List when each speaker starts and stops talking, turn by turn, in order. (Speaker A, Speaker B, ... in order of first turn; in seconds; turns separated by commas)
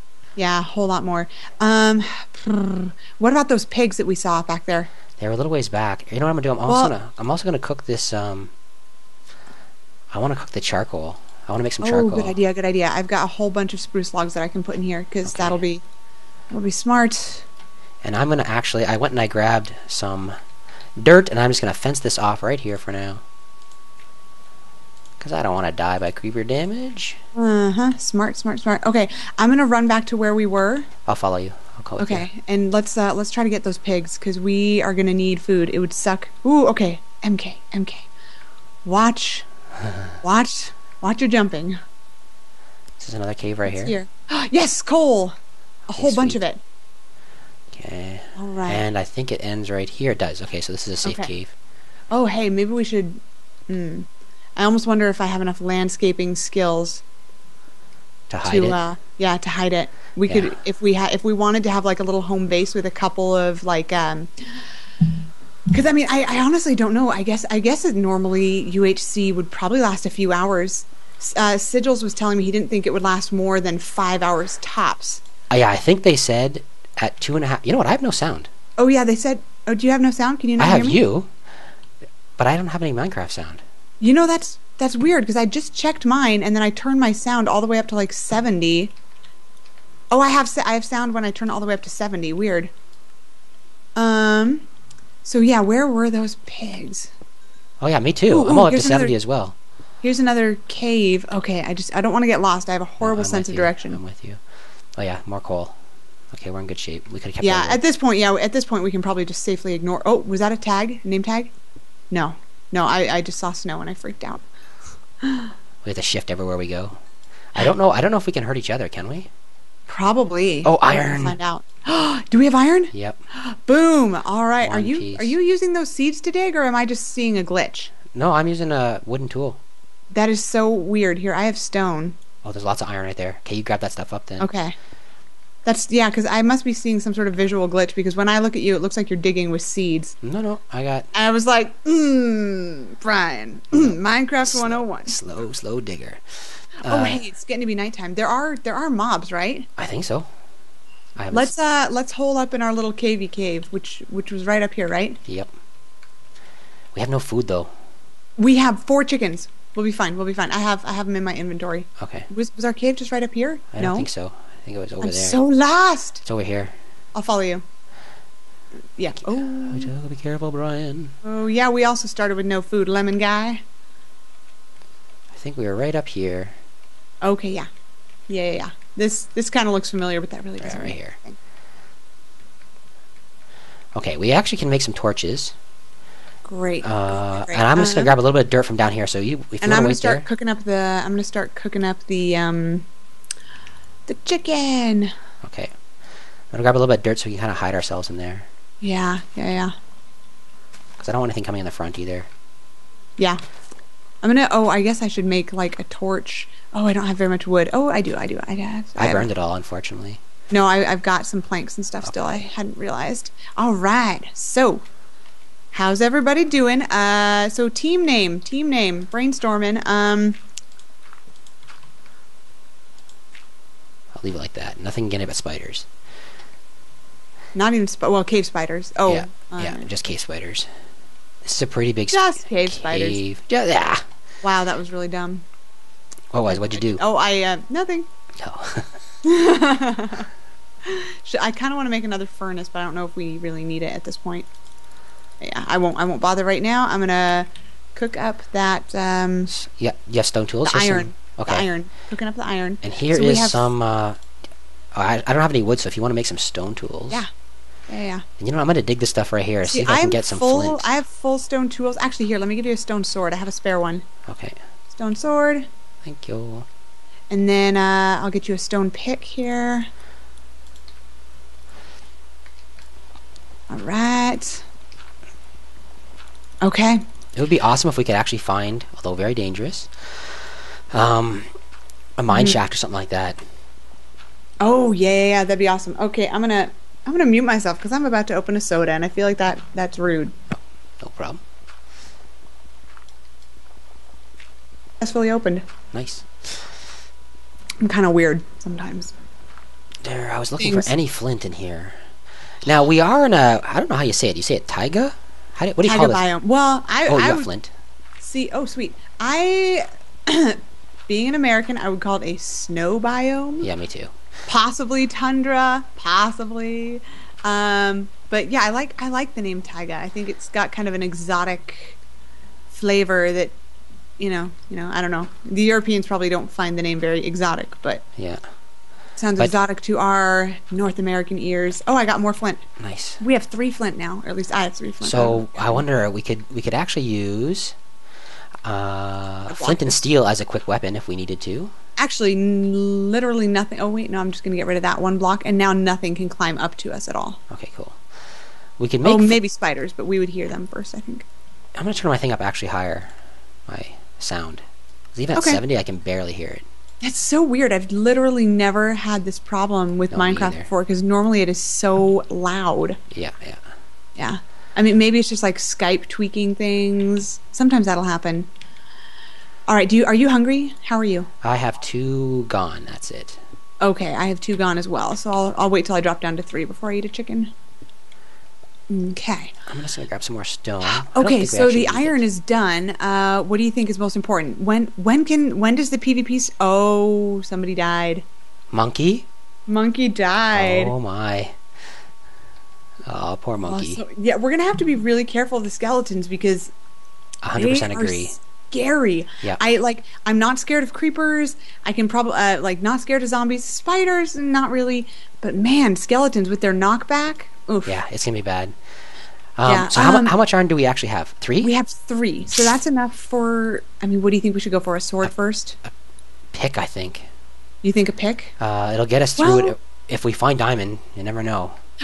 Speaker A: 0.4-4.9, Speaker B: 5.2-8.5, Speaker A: 6.7-7.0, Speaker B: 10.1-12.4, Speaker A: 11.8-15.8, Speaker B: 15.3-15.6, Speaker A: 16.5-17.5, Speaker B: 18.0-20.4, Speaker B: 21.0-23.2, Speaker B: 25.2-27.2, Speaker A: 27.4-30.9, Speaker B: 31.1-32.3, Speaker A: 32.0-38.1, Speaker A: 38.9-39.5, Speaker A: 40.2-41.8, Speaker B: 43.0-44.0, Speaker A: 43.7-45.4, Speaker A: 45.9-46.6, Speaker B: 46.0-46.4, Speaker B: 47.7-51.5, Speaker A: 48.4-48.9, Speaker A: 51.0-51.3, Speaker A: 52.1-57.0, Speaker B: 58.3-58.8, Speaker A: 58.4-64.6, Speaker B: 60.3-60.5, Speaker A: 65.7-75.2, Speaker B: 75.5-78.5, Speaker A: 78.8-81.0, Speaker B: 80.6-81.3, Speaker B: 82.4-83.6, Speaker A: 84.0-88.9, Speaker A: 90.1-92.7, Speaker A: 94.0-94.7, Speaker A: 95.2-97.1, Speaker B: 97.8-99.5, Speaker A: 98.3-99.2, Speaker A: 100.0-104.0, Speaker B: 103.0-104.4, Speaker B: 105.0-105.8, Speaker B: 106.3-107.8, Speaker A: 107.4-111.5, Speaker A: 112.1-114.4, Speaker A: 115.2-115.5, Speaker B: 115.8-117.0, Speaker B: 117.5-119.3, Speaker A: 119.9-127.9, Speaker B: 120.7-121.4, Speaker B: 122.9-123.2, Speaker B: 124.6-125.3, Speaker B: 128.1-129.6, Speaker A: 130.1-132.2, Speaker B: 132.4-134.5, Speaker A: 134.4-134.8, Speaker A: 135.7-140.2, Speaker B: 140.2-141.1, Speaker A: 141.1-145.2, Speaker B: 143.7-147.2, Speaker A: 146.8-149.7, Speaker B: 149.8-150.3, Speaker B: 151.2-151.5, Speaker A: 151.3-155.2, Speaker B: 155.3-155.5, Speaker B: 156.9-157.7, Speaker A: 158.4-164.1, Speaker B: 162.0-162.3, Speaker B: 163.7-165.4, Speaker A: 165.0-166.2, Speaker B: 166.2-166.7, Speaker A: 167.1-167.6, Speaker A: 169.0-169.9, Speaker B: 169.2-171.1, Speaker A: 171.2-173.6, Speaker B: 175.3-176.6, Speaker A: 177.2-177.7, Speaker A: 178.3-181.4, Speaker B: 180.6-181.2, Speaker B: 183.9-185.5, Speaker A: 186.4-188.1, Speaker B: 186.8-190.3, Speaker A: 189.6-192.9, Speaker A: 194.1-195.1, Speaker B: 195.4-195.7, Speaker B: 196.5-198.5, Speaker A: 198.8-199.7, Speaker B: 201.0-202.3, Speaker A: 204.2-209.3, Speaker B: 209.0-210.2, Speaker A: 210.5-214.8, Speaker B: 212.0-212.4, Speaker A: 215.7-220.4, Speaker B: 224.1-225.9, Speaker A: 227.5-229.9, Speaker B: 229.1-230.7, Speaker B: 231.4-234.0, Speaker A: 232.1-233.2, Speaker A: 234.4-235.4, Speaker B: 236.3-237.0, Speaker A: 236.5-238.1, Speaker B: 238.4-238.9, Speaker A: 239.2-240.3, Speaker A: 240.9-244.5, Speaker A: 245.4-249.5, Speaker B: 249.5-251.7, Speaker A: 250.6-253.6, Speaker B: 252.8-254.2, Speaker B: 254.9-257.3, Speaker A: 257.9-258.2, Speaker B: 258.4-260.9, Speaker A: 259.6-264.1, Speaker B: 264.3-264.6, Speaker A: 264.9-265.7, Speaker B: 266.0-266.7, Speaker A: 267.3-269.9, Speaker A: 273.7-274.6, Speaker A: 276.6-277.0, Speaker B: 277.4-281.5, Speaker B: 282.2-283.4, Speaker A: 282.3-282.6, Speaker A: 284.6-290.3, Speaker B: 290.5-291.4, Speaker A: 295.0-295.6, Speaker B: 295.9-296.3, Speaker A: 297.8-299.1, Speaker B: 300.0-302.0, Speaker A: 300.6-300.9, Speaker B: 302.6-306.2, Speaker A: 305.8-307.5, Speaker B: 307.1-307.7, Speaker A: 308.2-313.7, Speaker B: 313.6-314.1, Speaker A: 314.5-322.0, Speaker A: 322.7-323.5, Speaker A: 324.2-328.0, Speaker B: 328.2-328.4, Speaker A: 329.2-332.6, Speaker B: 332.8-333.2, Speaker A: 333.2-335.9, Speaker B: 335.0-337.8, Speaker B: 338.6-341.7, Speaker A: 339.5-340.0, Speaker A: 342.0-347.4, Speaker B: 347.5-348.0, Speaker B: 348.8-349.4, Speaker A: 349.0-351.2, Speaker B: 351.8-353.1, Speaker B: 353.7-354.6, Speaker B: 355.1-356.6, Speaker A: 355.4-355.6, Speaker A: 357.0-363.0, Speaker B: 360.1-360.7, Speaker B: 363.1-363.6, Speaker A: 364.2-368.5, Speaker A: 369.7-371.3, Speaker B: 371.4-373.4, Speaker A: 373.8-377.5, Speaker A: 378.9-379.5, Speaker B: 379.7-382.2, Speaker A: 380.9-388.2, Speaker B: 388.7-389.3, Speaker A: 389.7-390.9, Speaker B: 390.5-391.6, Speaker B: 393.1-394.0, Speaker A: 393.6-396.7, Speaker B: 397.4-398.4, Speaker A: 397.6-408.0, Speaker B: 407.9-408.8, Speaker B: 409.6-411.7, Speaker A: 409.6-410.4, Speaker A: 411.6-415.8, Speaker B: 416.5-417.3, Speaker A: 417.8-418.5, Speaker B: 418.6-421.8, Speaker A: 419.4-419.8